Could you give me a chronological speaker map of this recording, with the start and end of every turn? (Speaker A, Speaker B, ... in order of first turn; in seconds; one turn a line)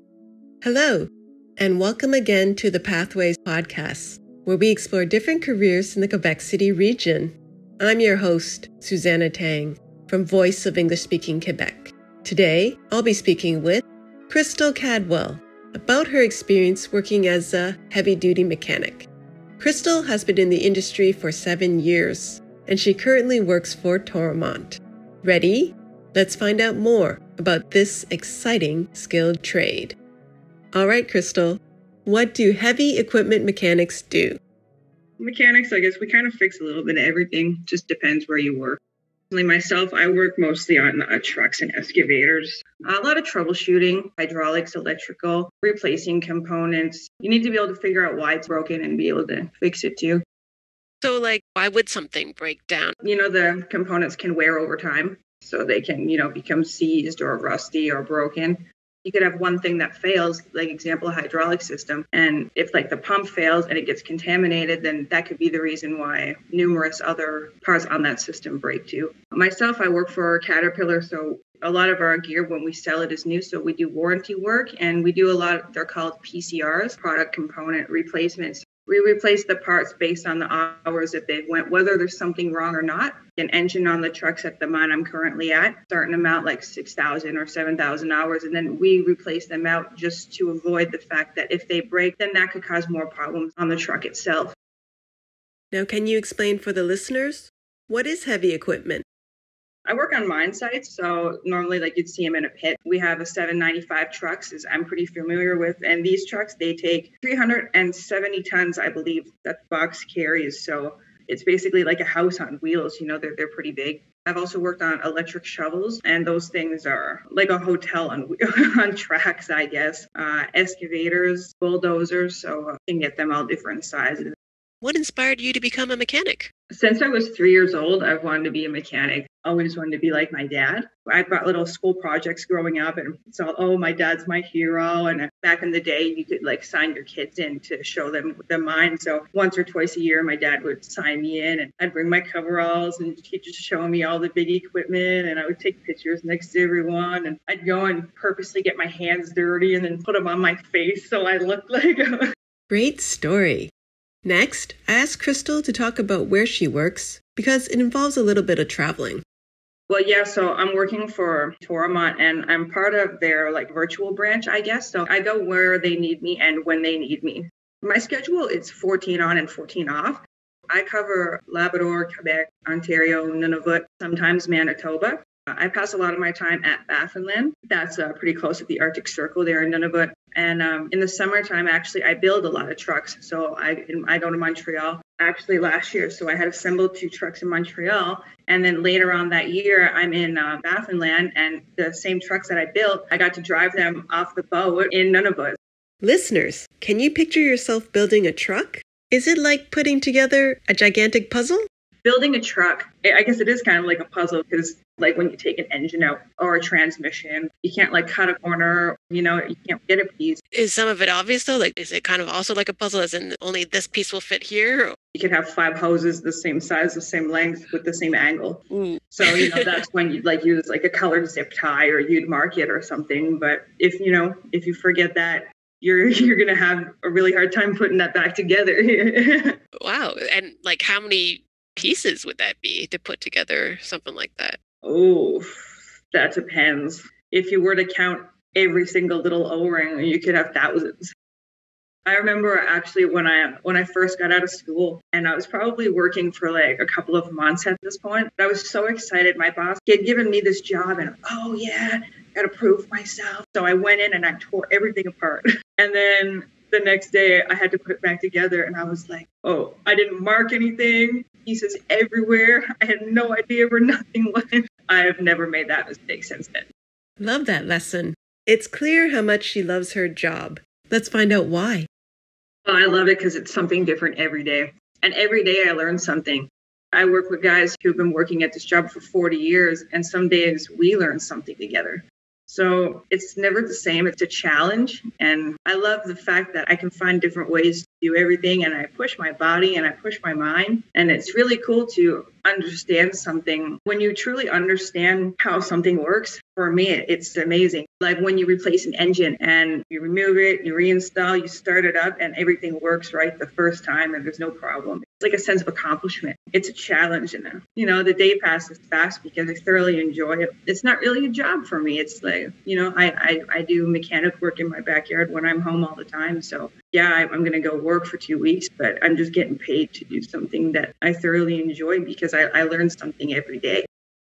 Speaker A: 0.6-19.1
Speaker A: 19.6-29.9
Speaker A: 30.7-34.4
Speaker B: 35.2-38.8
Speaker B: 39.3-50.2
Speaker A: 51.0-53.0
Speaker B: 53.0-94.5
Speaker A: 95.7-99.0
Speaker B: 99.8-124.2
Speaker A: 124.8-126.5
Speaker B: 126.7-152.2
Speaker A: 152.7-153.7
Speaker A: 154.2-159.2
Speaker B: 159.9-195.6
Speaker A: 196.0-201.6
Speaker B: 202.0-210.4
Speaker A: 210.5-214.9
Speaker B: 215.1-229.6
Speaker A: 218.7-219.7
Speaker A: 229.8-234.6
Speaker B: 234.8-241.1
Speaker B: 242.1-266.7
Speaker A: 267.2-271.9
Speaker B: 272.6-323.9